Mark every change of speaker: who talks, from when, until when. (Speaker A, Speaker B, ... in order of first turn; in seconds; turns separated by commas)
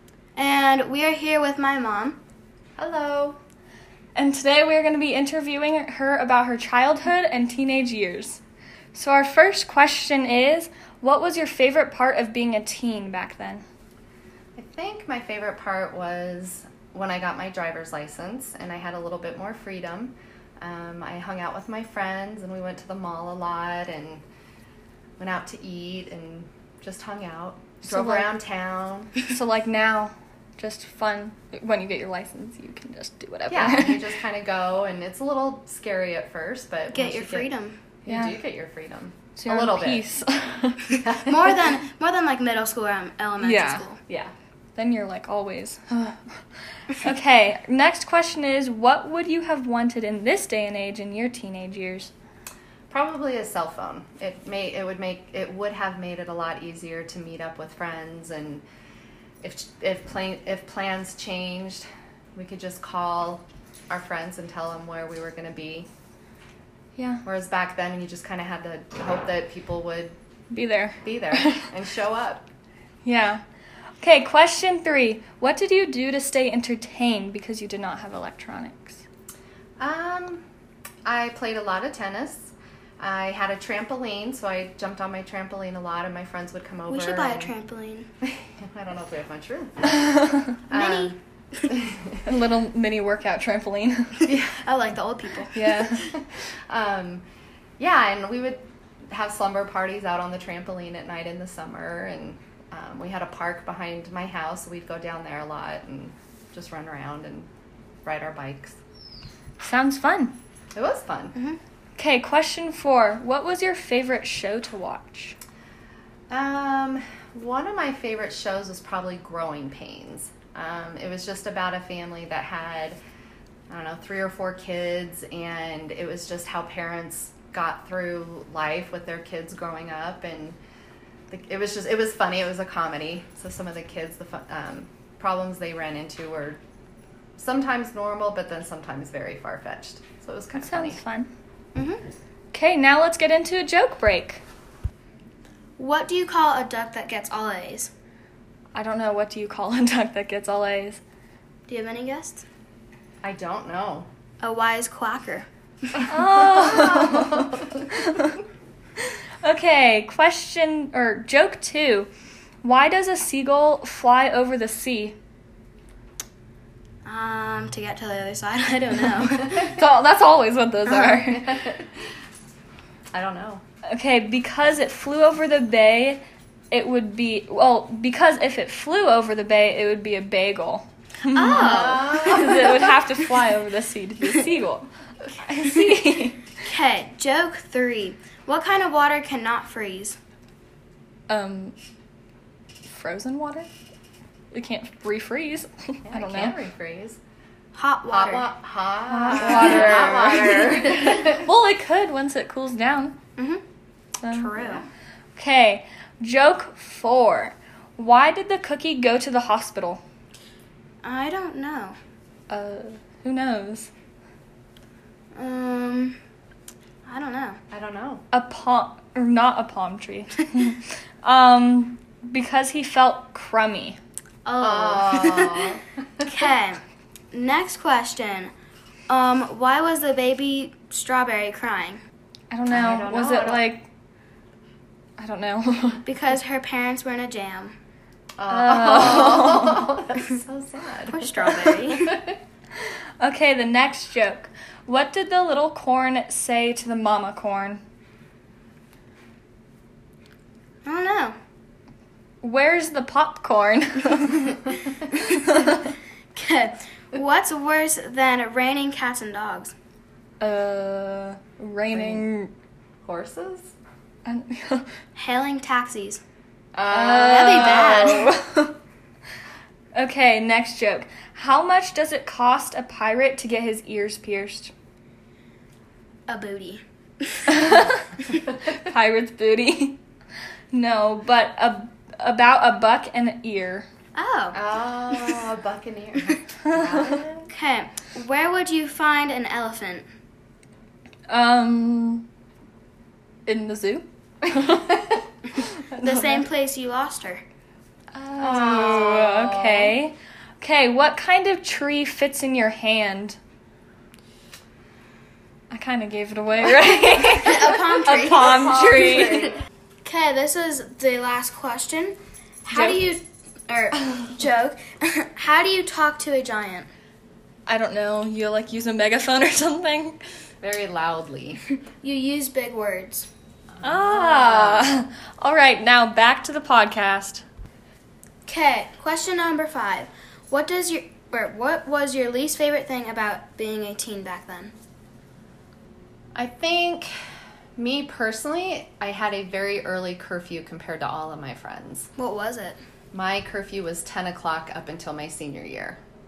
Speaker A: 0.3-2.2, Speaker B: 2.8-3.4, Speaker C: 4.1-8.4, Speaker C: 8.9-13.6, Speaker B: 14.6-24.2, Speaker B: 25.2-29.1, Speaker C: 27.8-28.4, Speaker C: 29.3-34.0, Speaker B: 33.5-37.5, Speaker A: 36.9-37.8, Speaker B: 38.0-40.0, Speaker C: 38.0-38.4, Speaker C: 39.4-41.0, Speaker B: 41.0-41.5, Speaker A: 41.2-44.0, Speaker C: 43.4-43.8, Speaker B: 44.1-44.3, Speaker C: 44.8-52.1, Speaker B: 52.9-58.6, Speaker B: 59.4-65.9, Speaker C: 67.0-67.2, Speaker B: 67.2-70.2, Speaker C: 70.5-71.7, Speaker B: 71.0-72.5, Speaker C: 73.0-73.4, Speaker C: 74.0-79.0, Speaker B: 79.8-80.4, Speaker B: 81.0-87.5, Speaker A: 86.9-88.1, Speaker B: 88.2-90.0, Speaker C: 90.1-90.4, Speaker B: 90.7-91.2, Speaker A: 90.7-91.7, Speaker C: 92.2-94.3, Speaker B: 94.2-94.6, Speaker A: 94.5-95.5, Speaker C: 95.5-96.1, Speaker B: 95.8-97.2, Speaker B: 97.8-107.5, Speaker B: 108.0-108.8, Speaker C: 109.6-110.3, Speaker B: 110.7-111.3, Speaker C: 112.0-115.3, Speaker B: 116.3-123.0, Speaker B: 123.7-130.6, Speaker B: 131.3-136.6, Speaker B: 137.4-141.0, Speaker C: 140.5-141.3, Speaker A: 141.7-142.0, Speaker C: 142.5-144.4, Speaker A: 145.8-147.9, Speaker C: 148.7-151.0, Speaker A: 151.7-152.4, Speaker B: 153.2-154.1, Speaker A: 154.4-156.1, Speaker C: 156.1-158.4, Speaker B: 156.7-157.0, Speaker C: 159.4-162.1, Speaker C: 162.6-165.2, Speaker A: 167.0-169.7, Speaker C: 169.6-171.6, Speaker B: 170.8-171.8, Speaker B: 173.1-173.6, Speaker C: 173.9-186.4, Speaker A: 181.3-182.3, Speaker B: 181.5-182.9, Speaker A: 186.6-190.2, Speaker C: 191.3-191.7, Speaker C: 192.9-193.7, Speaker C: 194.5-196.6, Speaker B: 196.1-197.2, Speaker A: 197.7-198.5, Speaker B: 198.1-201.4, Speaker C: 199.1-203.2, Speaker A: 203.4-203.6, Speaker C: 204.2-204.8, Speaker A: 204.3-204.9, Speaker C: 205.3-210.0, Speaker A: 211.0-212.0, Speaker C: 212.5-213.9, Speaker A: 215.3-216.2, Speaker A: 217.0-217.6, Speaker B: 217.7-218.2, Speaker C: 218.3-224.0, Speaker A: 224.4-228.5, Speaker B: 224.6-225.8, Speaker A: 229.1-232.0, Speaker C: 232.5-233.9, Speaker B: 232.7-233.7, Speaker C: 235.2-236.0, Speaker A: 236.0-237.7, Speaker B: 238.4-241.9, Speaker C: 238.5-239.9, Speaker A: 241.1-242.2, Speaker C: 243.2-247.8, Speaker A: 250.8-251.3, Speaker C: 252.4-254.6, Speaker A: 256.3-259.7, Speaker C: 260.4-262.5, Speaker B: 261.9-262.2, Speaker B: 263.0-263.7, Speaker C: 264.2-264.9, Speaker A: 265.1-266.2, Speaker B: 266.7-268.3, Speaker C: 266.9-268.7, Speaker A: 267.4-268.3, Speaker C: 269.9-274.7, Speaker A: 276.3-277.7, Speaker C: 277.5-278.1, Speaker C: 278.7-280.0, Speaker C: 280.7-283.9, Speaker A: 284.1-284.6, Speaker B: 284.5-287.5, Speaker C: 286.7-287.2, Speaker A: 287.5-290.1, Speaker C: 291.3-292.2, Speaker C: 293.4-296.4, Speaker A: 296.0-297.4, Speaker C: 298.1-303.4, Speaker B: 298.4-300.0, Speaker C: 305.7-309.5, Speaker A: 307.4-309.5, Speaker A: 310.0-316.9, Speaker C: 317.7-320.2, Speaker B: 320.6-321.6, Speaker A: 322.0-323.3, Speaker B: 323.7-324.8, Speaker C: 323.8-327.4, Speaker A: 328.4-334.7, Speaker B: 336.3-337.1, Speaker B: 337.8-342.1, Speaker A: 342.2-342.8, Speaker B: 343.1-346.0